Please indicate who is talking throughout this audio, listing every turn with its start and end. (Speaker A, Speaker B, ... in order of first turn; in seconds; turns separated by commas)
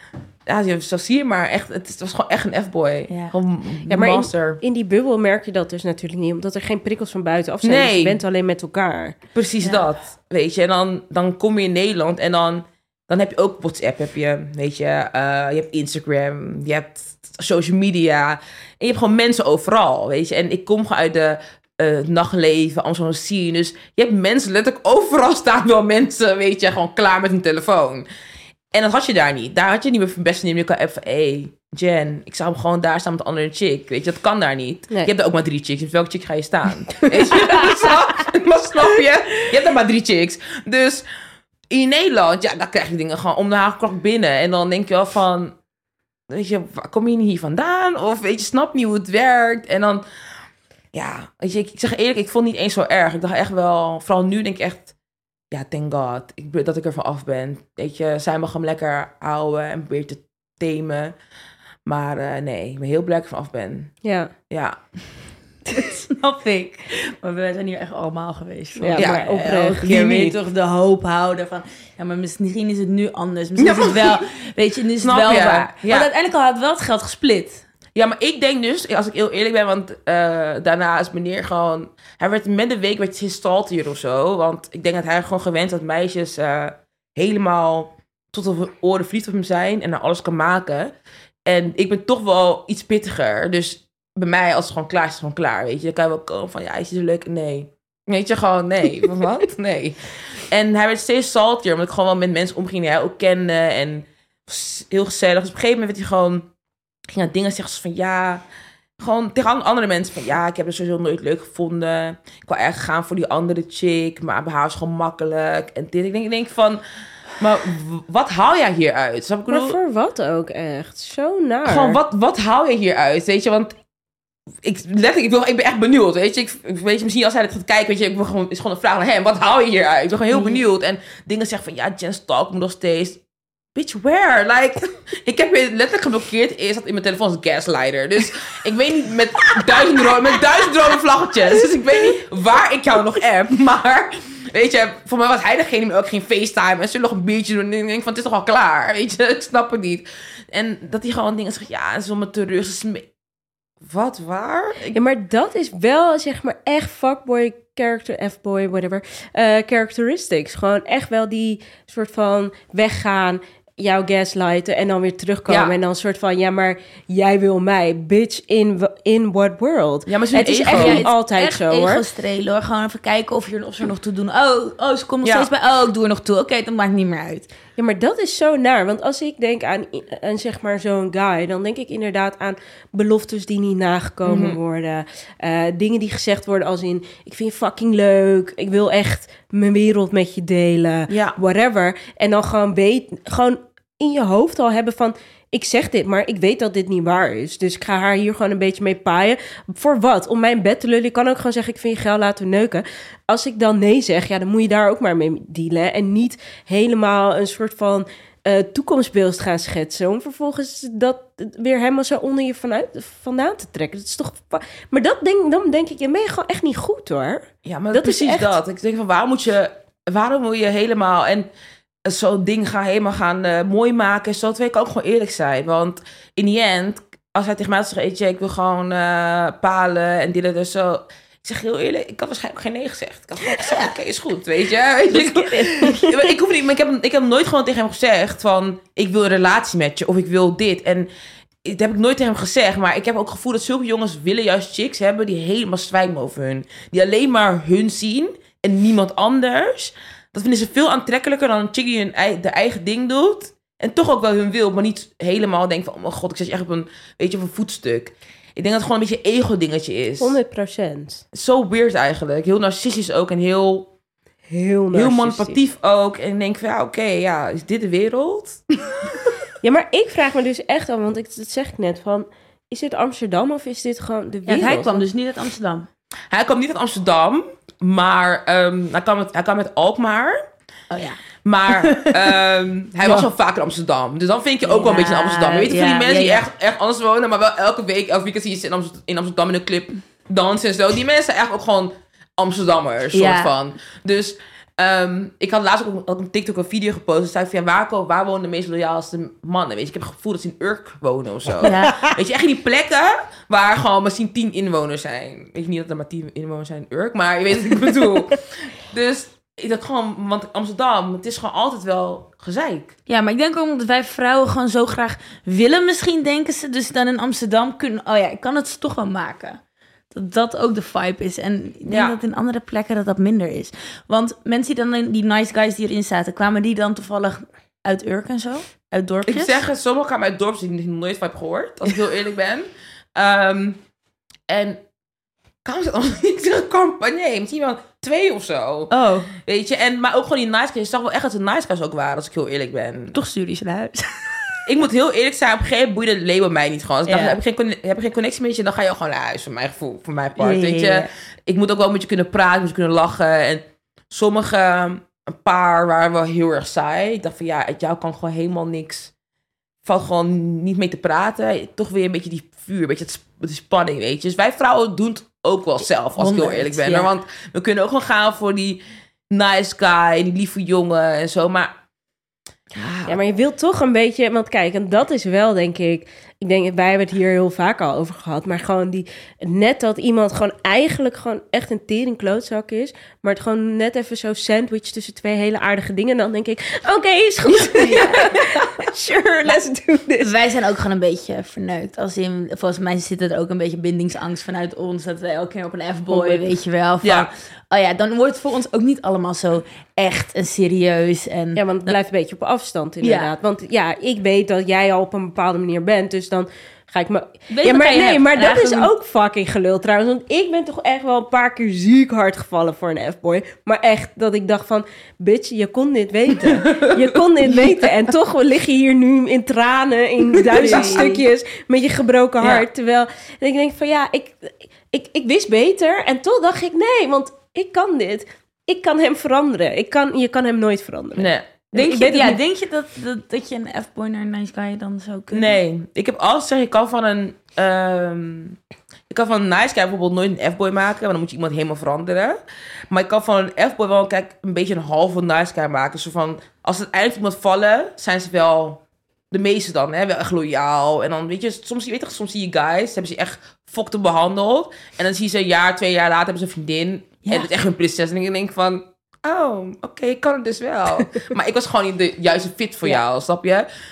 Speaker A: 0.5-4.6, Speaker B: 3.1-3.4, Speaker C: 3.9-9.2, Speaker A: 7.6-8.2, Speaker A: 9.3-28.1, Speaker A: 28.7-41.0, Speaker A: 41.7-45.5, Speaker A: 46.3-50.0, Speaker A: 50.9-54.9, Speaker A: 55.5-61.1, Speaker A: 61.9-64.0, Speaker C: 64.0-64.3, Speaker A: 64.5-64.8, Speaker B: 65.7-77.6, Speaker C: 68.8-69.9, Speaker A: 69.0-70.4, Speaker A: 73.6-74.2, Speaker A: 75.0-76.1, Speaker A: 78.0-90.9, Speaker A: 91.5-106.5, Speaker A: 107.1-108.4, Speaker A: 109.0-116.8, Speaker A: 117.4-119.8, Speaker C: 119.5-122.0, Speaker A: 121.7-123.7, Speaker A: 124.6-133.2, Speaker A: 133.8-153.1, Speaker A: 153.8-155.0, Speaker C: 154.9-172.0, Speaker A: 165.5-165.8, Speaker A: 170.1-171.1, Speaker B: 170.7-177.5, Speaker A: 175.2-175.5, Speaker C: 177.8-218.6, Speaker A: 184.3-184.6, Speaker A: 191.1-191.4, Speaker A: 217.7-221.5, Speaker A: 222.1-241.1, Speaker B: 233.5-233.9, Speaker B: 235.1-236.3, Speaker A: 241.7-260.4, Speaker C: 260.2-261.2, Speaker A: 261.3-263.9, Speaker C: 264.5-265.6, Speaker A: 264.9-269.1, Speaker C: 269.6-275.1, Speaker B: 274.5-275.9, Speaker A: 276.3-280.4, Speaker B: 280.9-281.2, Speaker A: 281.4-312.9, Speaker B: 281.7-282.3, Speaker B: 284.6-286.4, Speaker B: 293.1-293.5, Speaker B: 301.6-302.1, Speaker B: 313.1-319.6, Speaker B: 320.1-329.6, Speaker A: 321.9-322.2, Speaker A: 329.3-332.6, Speaker A: 333.2-333.8, Speaker A: 334.5-334.8, Speaker A: 335.6-338.9, Speaker B: 338.9-339.3, Speaker A: 339.4-343.1, Speaker B: 343.1-344.3, Speaker A: 344.7-359.1, Speaker B: 347.1-347.4, Speaker B: 350.4-351.1, Speaker A: 359.8-371.7, Speaker B: 366.2-367.1, Speaker A: 372.8-373.2, Speaker C: 373.1-390.3, Speaker B: 387.7-388.4, Speaker B: 390.2-402.0, Speaker C: 396.1-396.5, Speaker A: 397.0-397.3, Speaker C: 401.6-432.4, Speaker B: 403.0-403.3, Speaker B: 407.5-408.9, Speaker A: 416.6-417.1, Speaker B: 420.5-421.2, Speaker A: 420.5-421.1, Speaker A: 431.2-431.4, Speaker B: 431.7-435.6, Speaker A: 435.3-438.6, Speaker A: 439.1-442.4, Speaker A: 442.9-463.7